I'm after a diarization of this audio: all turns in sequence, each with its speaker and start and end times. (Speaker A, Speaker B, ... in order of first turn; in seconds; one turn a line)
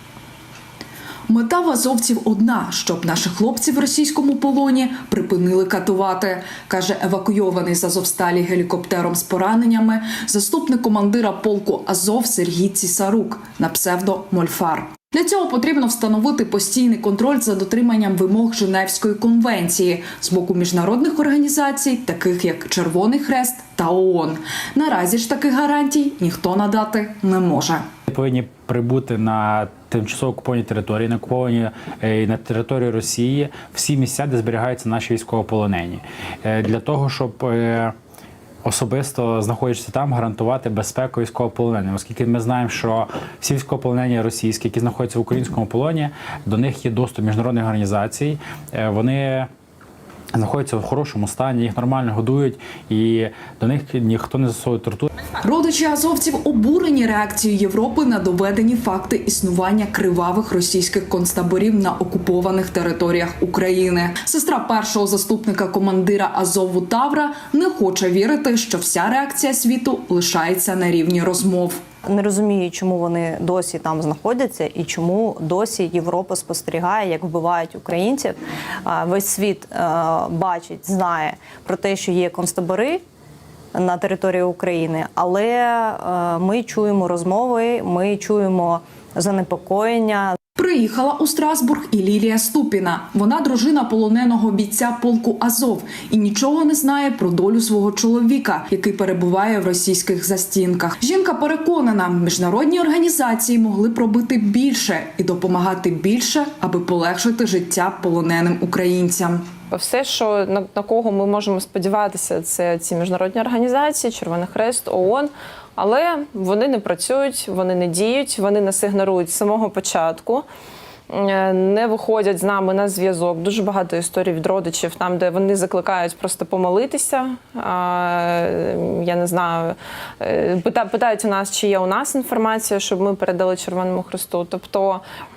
Speaker A: 1.3-27.8
Speaker B: 28.1-37.9
Speaker B: 38.6-49.5
Speaker B: 50.3-55.1
Speaker A: 55.4-71.8
Speaker C: 72.1-83.0
Speaker C: 83.7-90.4
Speaker A: 90.6-109.4
Speaker D: 109.7-120.5
Speaker D: 121.1-135.0